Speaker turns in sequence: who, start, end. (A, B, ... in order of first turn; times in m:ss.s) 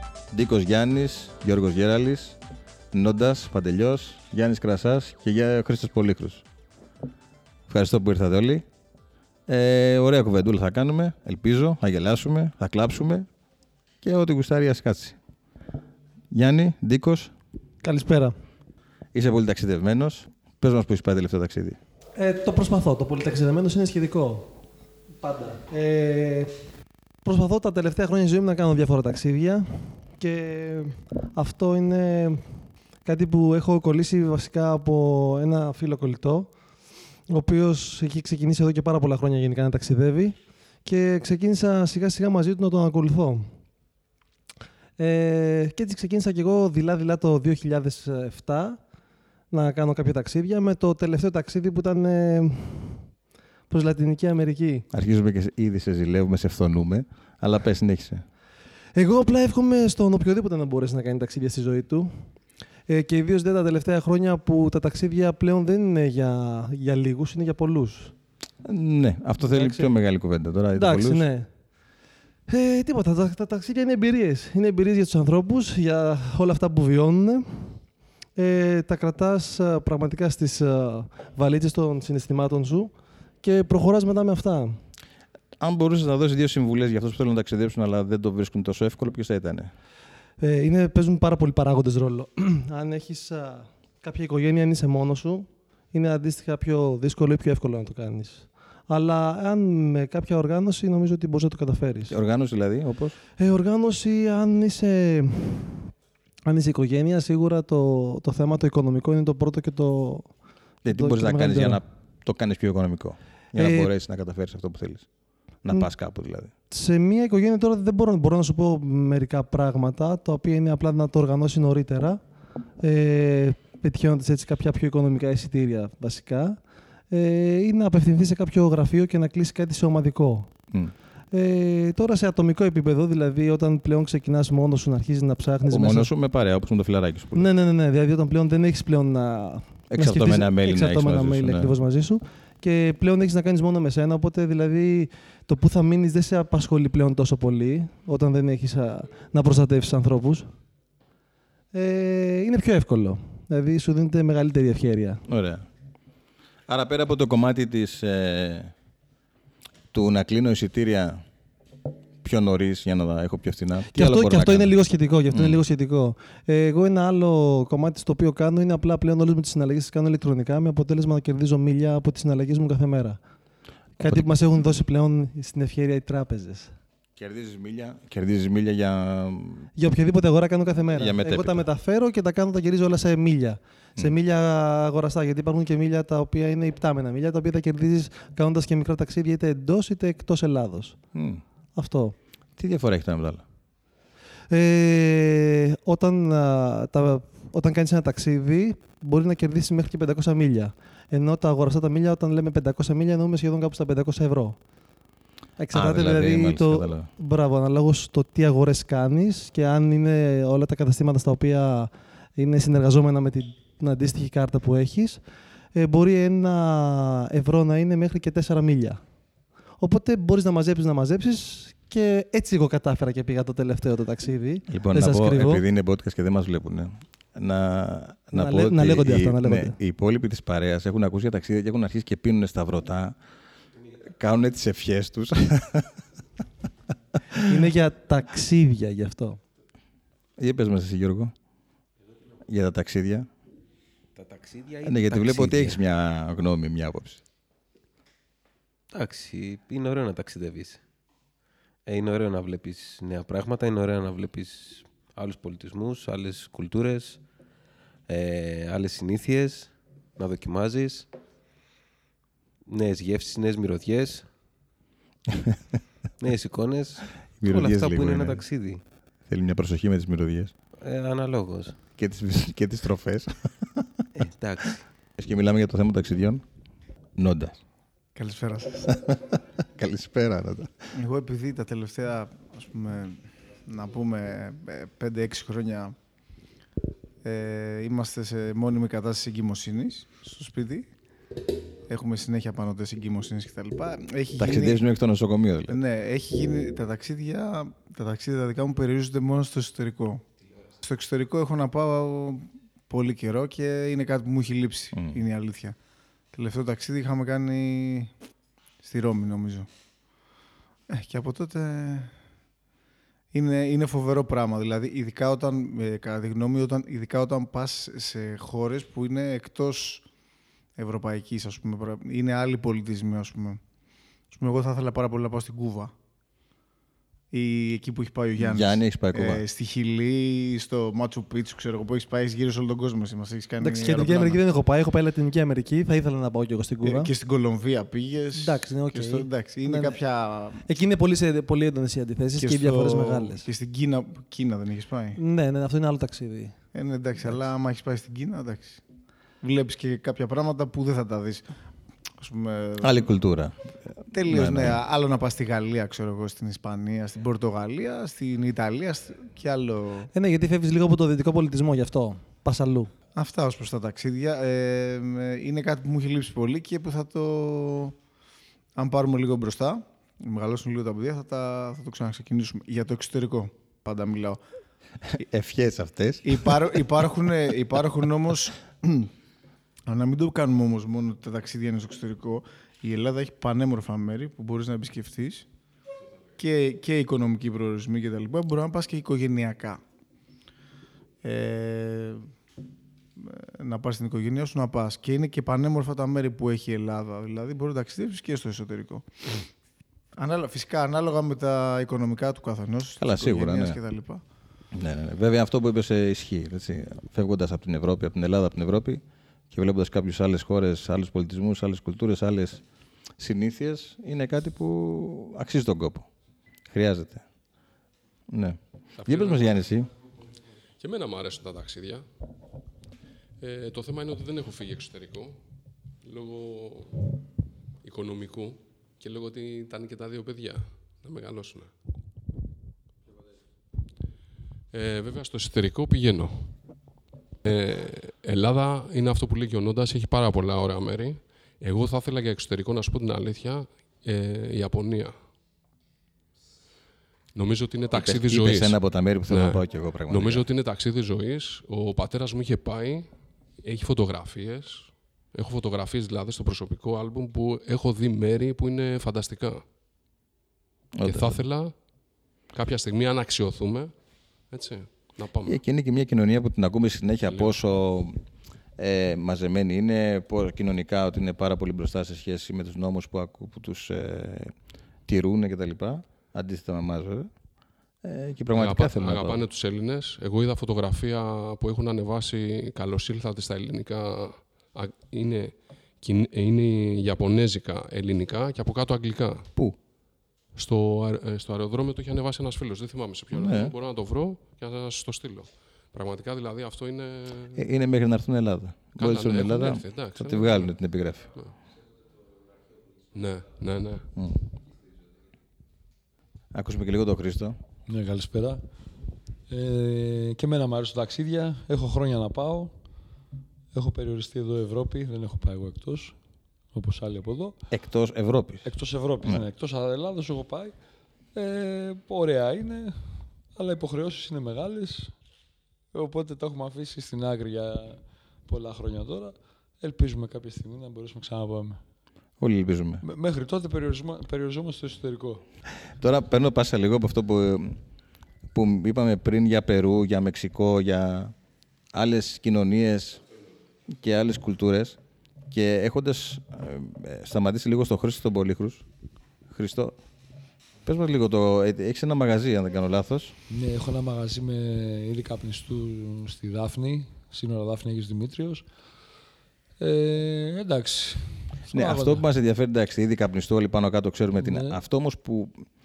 0:00.3-0:02.4 A
0:02.9-0:06.4 A
0:07.7-0:08.6 A
0:09.5-0:13.3 A
0:14.0-0:15.2 A
0:16.3-0:17.3 A
0:17.8-0:18.4 B
0:19.1-0:21.8 A
0:22.1-0:24.6 B
0:25.2-0:26.5 B
0:27.2-0:32.4 B
0:33.0-0:36.5 B
0:37.3-0:43.5 B
0:45.0-0:48.8 B
0:49.5-0:53.1 B
0:53.7-0:54.9 B
0:54.9-0:58.2 A
0:59.0-1:02.3 B
1:02.9-1:08.1 B
1:08.6-1:11.2 A
1:09.4-1:09.9 B
1:10.7-1:11.5 B
1:12.5-1:17.8 B
1:18.4-1:24.8 B
1:25.6-1:29.7 A
1:30.4-1:42.2 B
1:42.1-1:43.2 A
1:43.4-1:45.9 B
1:46.5-1:50.3 B
1:50.8-1:55.1 A
1:50.9-1:51.8 B
1:53.6-1:53.9 B
1:55.6-1:56.5 A
1:56.7-2:02.2 B
2:02.8-2:06.6 B
2:07.1-2:10.5 B
2:11.3-2:16.1 B
2:15.7-2:17.5 A
2:17.3-2:30.5 B
2:19.9-2:21.7 A
2:31.7-2:35.2 B
2:35.3-2:35.7 A
2:36.7-2:38.7 A
2:39.9-2:41.2 A
2:42.2-2:44.7 A
2:43.9-2:53.2 B
2:45.3-2:45.6 A
2:54.0-2:56.8 B
2:54.0-2:54.7 A
2:57.2-2:59.7 A
2:59.8-3:11.0 B
3:01.0-3:01.6 A
3:11.1-3:11.4 A
3:11.8-3:12.2 B
3:12.6-3:13.4 A
3:14.5-3:24.6 B
3:25.6-3:35.2 B
3:25.7-3:27.1 A
3:35.7-3:39.0 B
3:39.8-3:45.6 B
3:44.7-3:53.2 A
3:48.3-3:49.8 B
3:54.0-3:56.0 A
3:57.3-3:59.4 B
4:00.4-4:01.3 A
4:02.5-4:03.3 A
4:04.2-4:05.8 C
4:04.8-4:07.2 A
4:08.9-4:10.8 C
4:11.9-4:17.2 C
4:18.1-4:21.1 C
4:22.7-4:24.3 C
4:25.3-4:25.6 A
4:26.2-4:28.8 C
4:27.4-4:28.4 A
4:29.3-4:30.5 A
4:30.8-4:31.8 C
4:32.0-4:34.2 A
4:34.2-4:34.8 C
4:35.2-4:36.4 A
4:37.2-4:37.6 A
4:38.1-4:39.0 D
4:39.0-4:40.9 A
4:40.9-4:46.0 D
4:47.2-4:50.9 D
4:51.9-4:54.8 D
4:54.4-4:55.8 A
4:55.7-5:00.2 D
5:00.8-5:05.8 D
5:06.3-5:08.1 D
5:08.8-5:09.7 D
5:10.9-5:12.1 D
5:13.3-5:20.0 D
5:20.8-5:23.6 D
5:24.3-5:25.9 D
5:27.3-5:34.4 D
5:28.4-5:29.4 A
5:33.6-5:37.1 B
5:36.8-5:40.6 D
5:38.3-5:40.0 B
5:40.6-5:43.5 B
5:42.4-5:45.2 D
5:45.1-5:46.5 B
5:46.7-5:48.8 D
5:49.4-5:51.5 D
5:52.2-5:53.0 D
5:52.8-5:54.8 A
5:54.1-6:00.1 D
6:00.1-6:02.9 B
6:03.2-6:07.9 D
6:08.8-6:14.4 D
6:15.1-6:16.9 A
6:16.2-6:19.1 D
6:19.9-6:25.4 D
6:26.4-6:29.8 D
6:31.2-6:32.3 D
6:33.2-6:39.2 D
6:40.2-6:44.2 D
6:43.0-6:43.8 A
6:44.7-6:52.6 A
6:53.2-6:56.1 A
6:56.7-6:57.2 A
6:58.3-6:59.9 A
6:59.0-6:59.6 E
7:00.8-7:02.0 E
7:03.4-7:05.4 E
7:06.0-7:07.1 E
7:07.8-7:11.7 E
7:14.7-7:16.5 E
7:17.4-7:25.2 E
7:27.3-7:28.8 E
7:27.9-7:30.4 A
7:29.3-7:33.1 E
7:33.6-7:39.6 E
7:40.9-7:41.4 A
7:41.0-7:41.7 E
7:42.5-7:43.9 E
7:44.5-7:45.6 E
7:45.4-7:48.2 A
7:47.3-7:47.5 E
7:48.8-7:54.5 A
7:55.1-7:57.3 A
7:58.0-7:59.4 A
7:58.5-8:09.5 E
8:10.6-8:17.6 E
8:13.3-8:13.7 A
8:17.5-8:21.3 A
8:19.0-8:20.8 E
8:23.1-8:24.1 E
8:24.1-8:24.4 A
8:26.5-8:27.6 A
8:27.9-8:28.6 F
8:29.5-8:32.7 F
8:33.7-8:36.1 F
8:36.7-8:37.6 F
8:37.7-8:38.6 A
8:38.6-8:40.8 F
8:41.3-8:45.1 F
8:45.9-8:51.8 F
8:52.4-8:53.0 A
8:53.0-8:55.4 F
8:55.8-8:57.8 A
8:58.5-9:01.3 A
9:01.9-9:03.2 A
9:03.9-9:05.0 A
9:05.5-9:08.8 A
9:09.5-9:09.9 A
9:10.9-9:13.4 A
9:13.5-9:18.6 F
9:19.8-9:22.2 F
9:21.7-9:25.6 A
9:24.4-9:24.8 F